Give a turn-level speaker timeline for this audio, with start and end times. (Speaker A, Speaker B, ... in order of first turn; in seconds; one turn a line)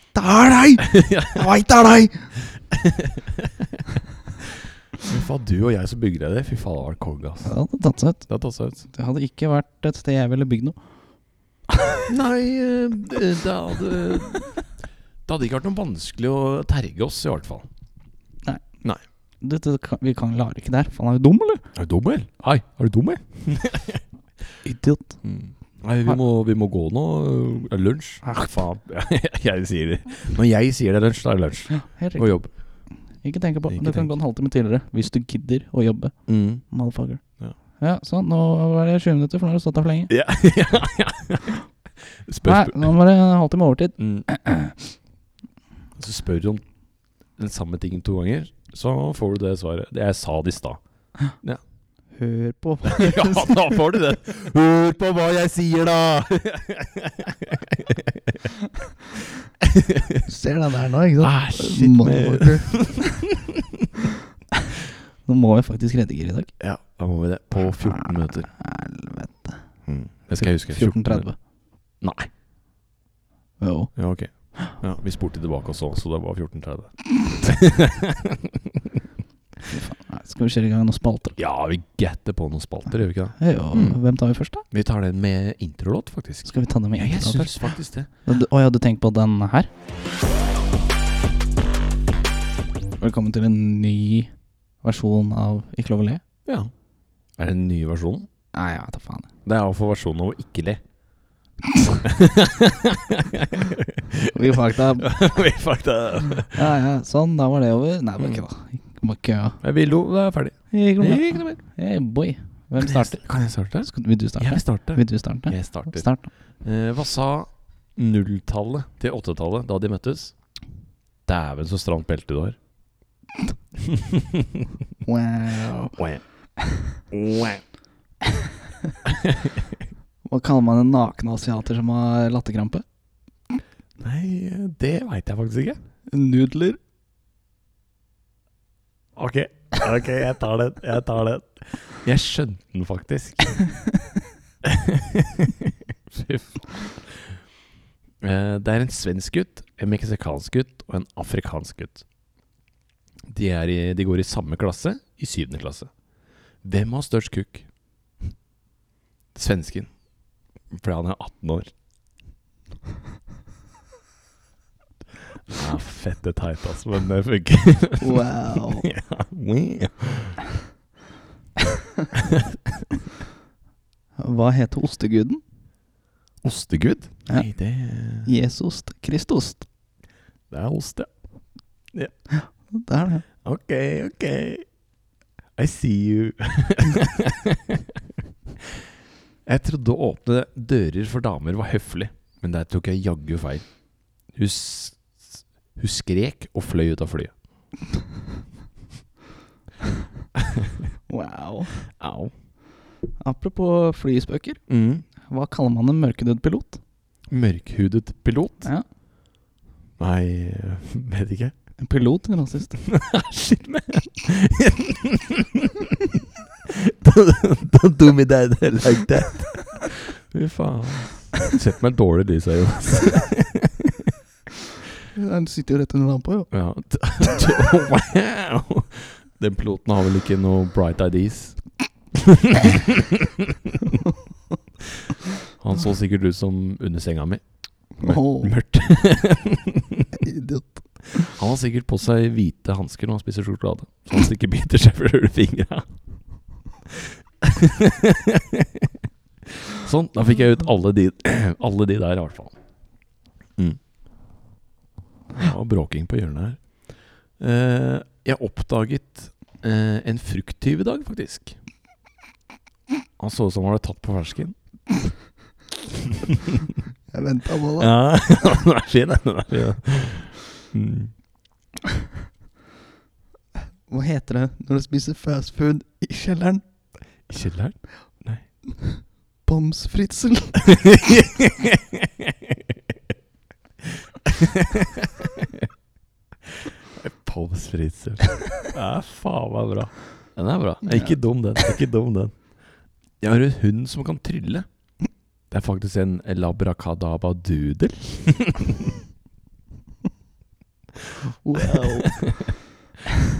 Speaker A: 0.1-2.3
Speaker B: 0.8-1.6
Speaker B: 2.2-7.5
Speaker A: 7.4-8.3
Speaker B: 8.3-8.8
Speaker A: 8.8-10.8
Speaker B: 12.1-14.6
Speaker B: 15.2-17.7
Speaker A: 19.4-21.6
Speaker B: 21.7-24.0
Speaker A: 24.6-25.2
Speaker B: 25.2-32.5
Speaker A: 28.2-28.6
Speaker A: 31.7-32.4
Speaker A: 33.1-37.2
Speaker B: 33.7-34.1
Speaker B: 36.3-36.6
Speaker A: 37.8-40.1
Speaker B: 40.1-42.9
Speaker A: 42.4-44.9
Speaker B: 44.0-44.3
Speaker B: 46.0-46.6
Speaker B: 47.4-50.8
Speaker B: 51.4-51.6
Speaker A: 52.1-53.8
Speaker B: 52.8-58.5
Speaker B: 59.6-60.3
Speaker A: 60.2-63.2
Speaker B: 61.2-63.9
Speaker A: 65.2-66.5
Speaker B: 66.6-68.5
Speaker A: 67.6-69.7
Speaker B: 69.9-71.3
Speaker A: 70.3-71.4
Speaker B: 72.0-72.3
Speaker A: 73.6-74.0
Speaker B: 74.0-79.0
Speaker A: 79.7-81.4
Speaker B: 81.4-84.0
Speaker A: 83.4-84.6
Speaker B: 84.7-88.1
Speaker A: 86.5-87.7
Speaker A: 88.2-89.7
Speaker A: 93.0-94.3
Speaker A: 94.8-96.2
Speaker B: 96.5-96.7
Speaker B: 97.4-98.3
Speaker A: 98.5-99.3
Speaker B: 99.5-100.8
Speaker B: 102.0-106.7
Speaker A: 104.3-105.1
Speaker A: 106.5-109.6
Speaker B: 109.6-111.6
Speaker A: 110.7-113.2
Speaker B: 112.8-116.1
Speaker A: 113.8-116.3
Speaker B: 116.6-120.3
Speaker B: 121.2-122.6
Speaker B: 123.8-124.6
Speaker A: 125.0-126.0
Speaker B: 126.0-126.2
Speaker A: 126.6-126.9
Speaker B: 127.1-127.6
Speaker B: 129.1-129.8
Speaker A: 130.2-132.8
Speaker B: 134.0-135.8
Speaker A: 136.1-136.8
Speaker B: 139.2-143.6
Speaker B: 144.6-147.4
Speaker B: 148.2-152.0
Speaker B: 153.3-155.9
Speaker B: 156.6-157.7
Speaker B: 159.3-159.9
Speaker B: 160.7-161.7
Speaker B: 165.5-170.4
Speaker A: 168.0-168.9
Speaker B: 172.1-172.6
Speaker A: 174.2-175.4
Speaker B: 176.4-178.3
Speaker A: 178.2-179.7
Speaker B: 180.5-181.1
Speaker A: 182.3-183.2
Speaker B: 183.4-184.7
Speaker B: 185.6-188.0
Speaker B: 189.5-193.7
Speaker B: 194.3-197.3
Speaker B: 200.4-200.7
Speaker A: 201.1-201.9
Speaker B: 201.8-202.3
Speaker A: 203.2-204.6
Speaker B: 204.7-205.1
Speaker A: 205.2-206.8
Speaker B: 207.3-208.7
Speaker B: 210.0-211.5
Speaker A: 211.8-212.8
Speaker B: 212.8-224.1
Speaker A: 225.1-226.5
Speaker B: 226.5-233.9
Speaker B: 234.8-240.2
Speaker A: 238.0-238.5
Speaker A: 240.2-241.3
Speaker B: 241.2-245.9
Speaker B: 246.9-252.6
Speaker B: 255.3-256.7
Speaker B: 257.4-261.6
Speaker B: 263.2-264.6
Speaker B: 266.0-266.6
Speaker A: 267.1-267.9
Speaker B: 267.8-271.1
Speaker A: 273.9-276.6
Speaker B: 277.3-278.4
Speaker A: 278.8-280.8
Speaker B: 280.6-282.9
Speaker B: 283.8-285.7
Speaker B: 286.4-292.4
Speaker B: 293.2-294.6
Speaker B: 295.5-298.9
Speaker A: 301.4-302.2
Speaker B: 301.6-302.5